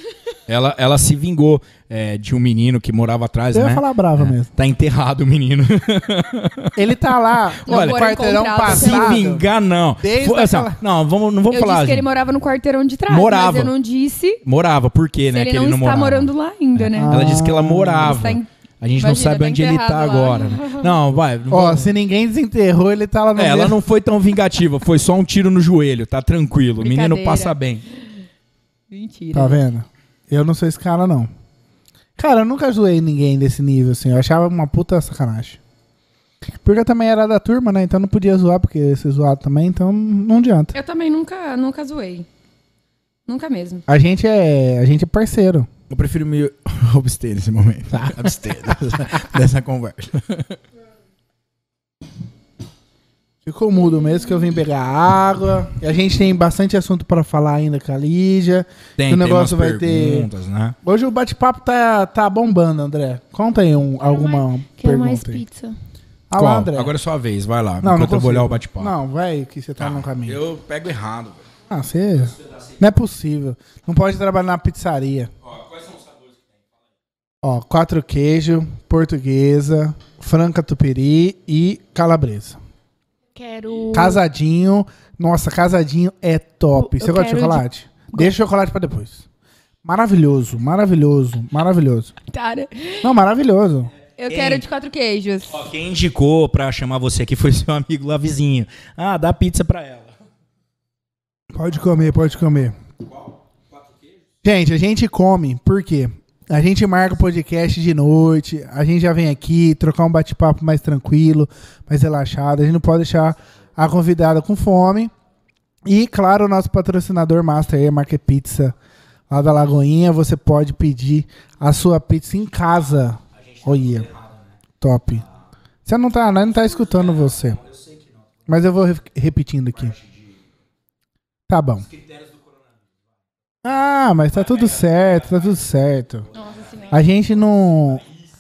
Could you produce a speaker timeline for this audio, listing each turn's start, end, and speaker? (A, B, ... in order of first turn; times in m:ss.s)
0:00.5-0:06.8 A
0:03.5-0:04.5 B
0:06.8-0:09.4 B
0:07.6-0:08.1 A
0:07.7-0:09.2 C
0:08.6-0:12.1 A
0:10.0-0:10.8 B
0:11.5-0:14.4 C
0:13.1-0:13.7 A
0:14.4-0:21.9 A
0:15.3-0:17.4 C
0:17.0-0:18.2 B
0:18.0-0:21.0 C
0:21.5-0:23.8 B
0:23.4-0:27.8 A
0:26.8-0:27.6 C
0:28.9-0:29.6 C
0:29.3-0:31.3 B
0:32.2-0:35.6 B
0:36.6-0:40.7 B
0:40.7-0:42.3 C
0:43.3-0:43.8 C
0:43.9-0:45.7 B
0:45.9-0:50.6 A
0:48.0-0:48.8 B
0:53.4-1:00.3 B
0:59.0-1:00.8 A
1:00.8-1:05.4 B
1:04.0-1:05.8 C
1:06.3-1:06.9 B
1:06.4-1:09.0 A
1:07.8-1:10.4 B
1:09.8-1:11.5 A
1:11.7-1:15.3 B
1:15.5-1:16.2 A
1:17.4-1:22.6 B
1:23.3-1:24.2 C
1:23.9-1:29.2 B
1:26.8-1:28.3 C
1:29.8-1:32.1 B
1:32.3-1:33.1 C
1:33.0-1:33.9 B
1:34.2-1:35.6 C
1:34.3-1:34.6 A
1:35.5-1:40.1 A
1:41.5-1:42.8 B
1:43.2-1:44.0 A
1:44.4-1:55.1 B
1:55.9-1:58.7 B
1:59.3-2:04.1 B
2:03.6-2:04.3 A
2:04.8-2:05.2 B
2:05.8-2:07.6 B
2:08.5-2:10.0 B
2:11.5-2:11.9 B
2:12.0-2:12.3 A
2:13.6-2:16.3 B
2:16.3-2:17.0 C
2:16.9-2:18.0 B